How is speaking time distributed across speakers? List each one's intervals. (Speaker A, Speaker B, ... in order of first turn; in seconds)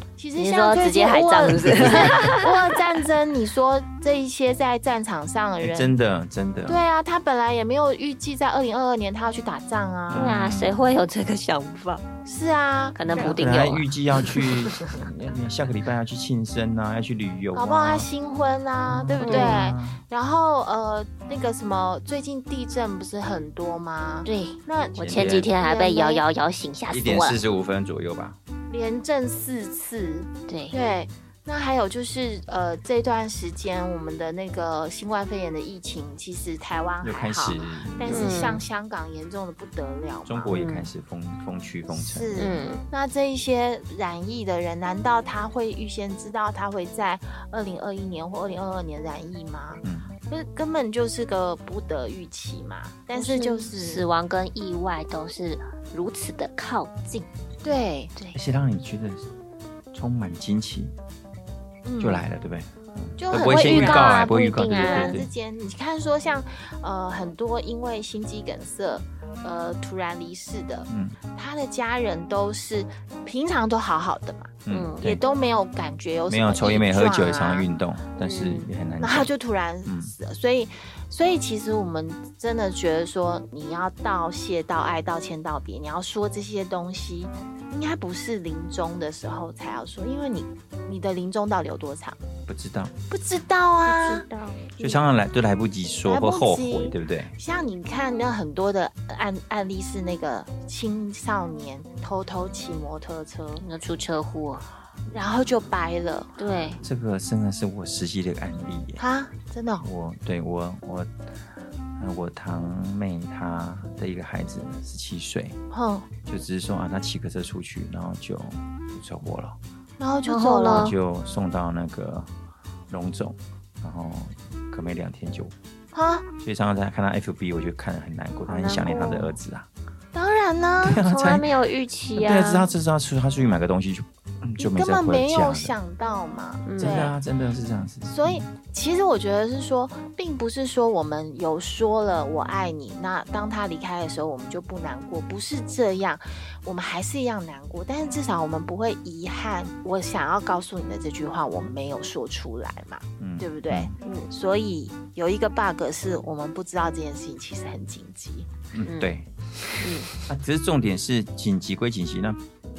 Speaker A: 0.2-5.9, 6.7-10.3, 12.2-13.0, 17.5-26.2, 28.7-40.5, 41.9-54.0, 57.6-58.1, 61.8-62.2, 63.2-77.7, 79.0-92.2, 93.1-94.2, 96.1-103.6, 105.1-106.3, 109.0-109.8, 115.7-116.1, 120.0-120.9, 125.9-126.2, 130.1-131.1, 134.6-137.1, 138.1-158.5
Speaker B: 0.4-2.9, 10.1-12.1, 12.9-15.0, 19.2-19.6, 24.2-27.4, 30.5-30.8, 38.0-38.6, 40.5-40.9, 42.4-42.8, 53.1-57.3, 63.3-65.2, 74.7-75.2, 78.2-78.7, 93.9-94.7, 103.6-104.6, 106.4-106.8, 120.2-120.9, 128.5-129.3, 131.0-132.7, 136.6-137.1, 154.0-154.3, 158.8-159.1, 159.8-160.1
Speaker C: 1.8-2.1, 5.6-6.8, 10.1-11.0, 13.1-18.1, 18.9-20.0, 24.9-25.5, 26.9-28.4, 37.0-38.5, 40.3-42.5, 49.8-50.1, 58.3-59.2, 59.9-60.9, 62.0-65.3, 70.9-71.2, 74.7-75.2, 76.3-79.3, 79.8-80.1, 92.5-92.9, 94.8-97.3, 106.8-109.0, 109.8-111.1, 112.0-115.6, 116.2-119.6, 120.7-122.3, 122.9-125.5, 126.4-129.7, 130.8-131.5, 132.1-135.7, 136.8-138.5, 153.2-153.9, 158.7-162.4